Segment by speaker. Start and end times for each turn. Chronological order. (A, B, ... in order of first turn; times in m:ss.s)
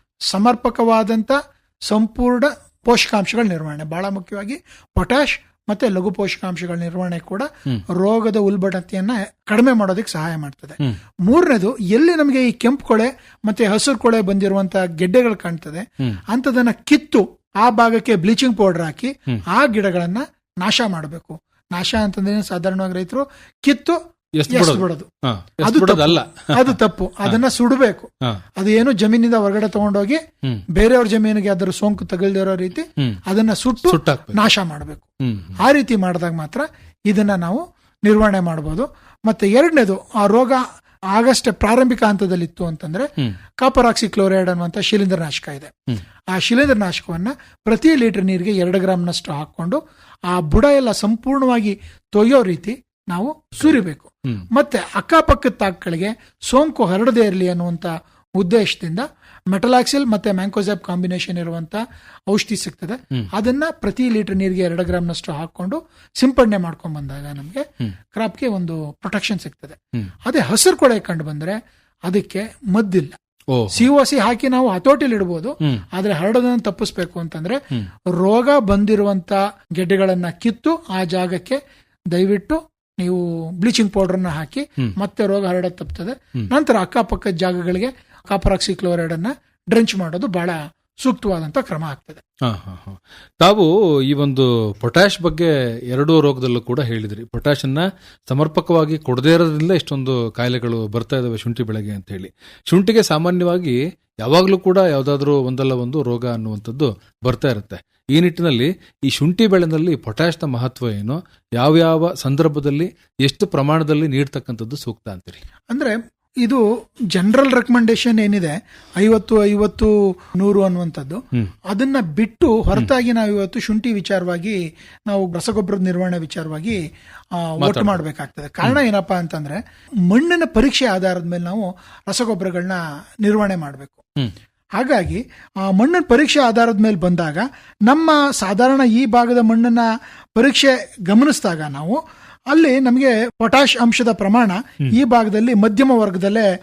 0:00.3-0:24.0 A
0:24.4-0:27.4 B
0:24.5-0:25.1 A
0:25.6-0:30.2 A
0:30.8-0:35.1 A
0:33.9-0:34.5 B
0:35.2-0:35.6 B
0:35.6-0:45.7 A
0:46.3-1:13.2 A
1:13.5-1:13.9 B
1:13.7-1:21.6 A
1:22.1-1:32.2 A
1:32.4-1:55.4 B
1:55.7-1:56.6 A
1:57.1-2:06.8 A
2:07.4-2:14.1 A
2:07.6-2:08.0 B
2:14.8-2:26.5 A